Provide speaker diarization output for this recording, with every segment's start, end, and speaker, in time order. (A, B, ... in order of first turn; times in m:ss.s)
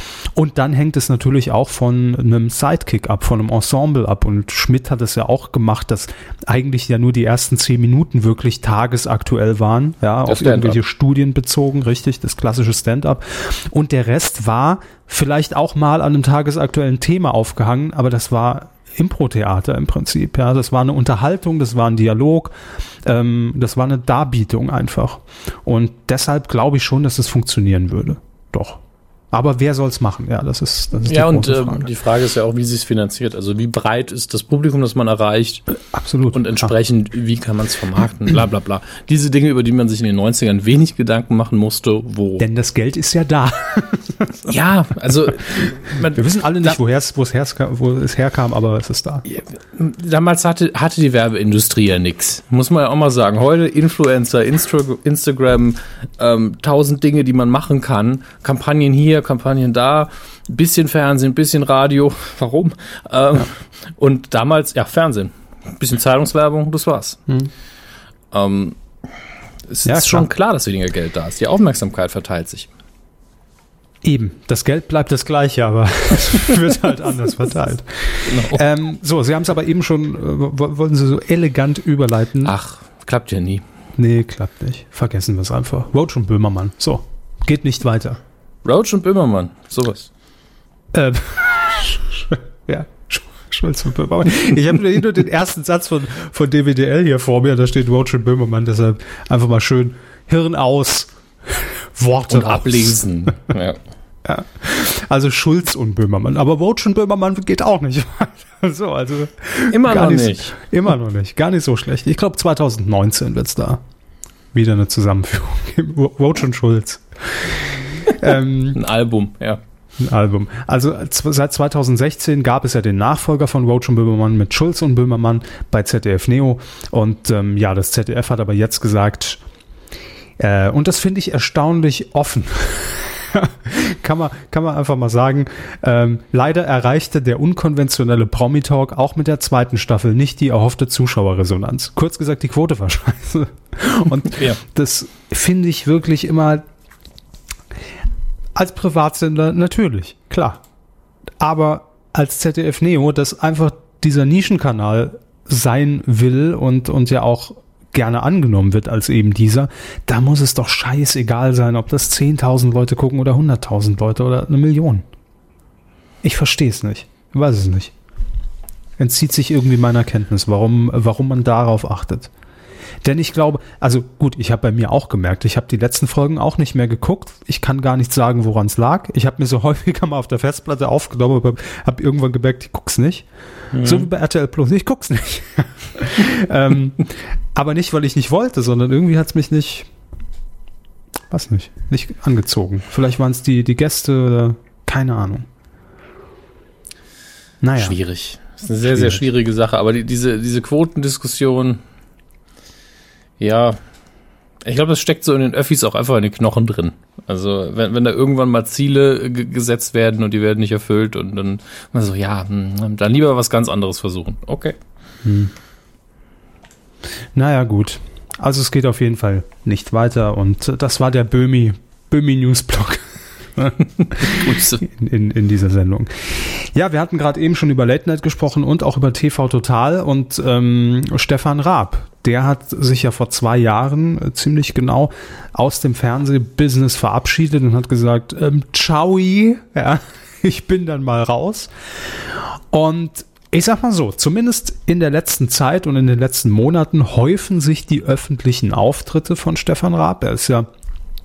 0:00.3-0:31.9 A
0:10.2-0:10.8 B
0:31.1-0:35.6 B
0:35.7-0:36.7 A
0:36.3-0:42.4 B
0:42.4-0:44.4 A
0:44.4-0:46.8 B
0:46.1-0:49.2 A
0:49.2-1:07.2 B
1:08.3-1:08.8 B
1:09.7-1:12.7 B
1:09.8-1:10.3 A
1:14.0-1:22.5 A
1:18.2-1:18.6 B
1:22.4-1:23.6 B
1:24.0-1:28.2 A
1:28.6-1:30.1 B
1:30.9-1:43.0 A
1:42.3-1:43.8 B
1:44.2-1:53.8 A
1:49.7-1:50.5 B
1:54.5-1:58.8 A
1:58.7-1:59.6 B
2:00.0-2:09.4 A
2:10.4-2:26.6 A
2:24.3-2:24.6 B
2:28.5-2:30.6 A
2:31.4-2:45.0 A
2:46.2-2:47.9 A
2:49.0-2:52.3 A
2:53.0-3:03.3 A
3:03.7-3:04.1 B
3:03.8-3:09.9 A
3:11.3-3:15.5 A
3:17.6-3:18.0 A
3:17.8-3:21.8 B
3:18.9-3:19.2 A
3:23.4-3:23.8 B
3:24.6-3:34.8 B
3:35.2-3:35.5 A
3:37.3-4:10.7 A
3:44.0-3:44.8 B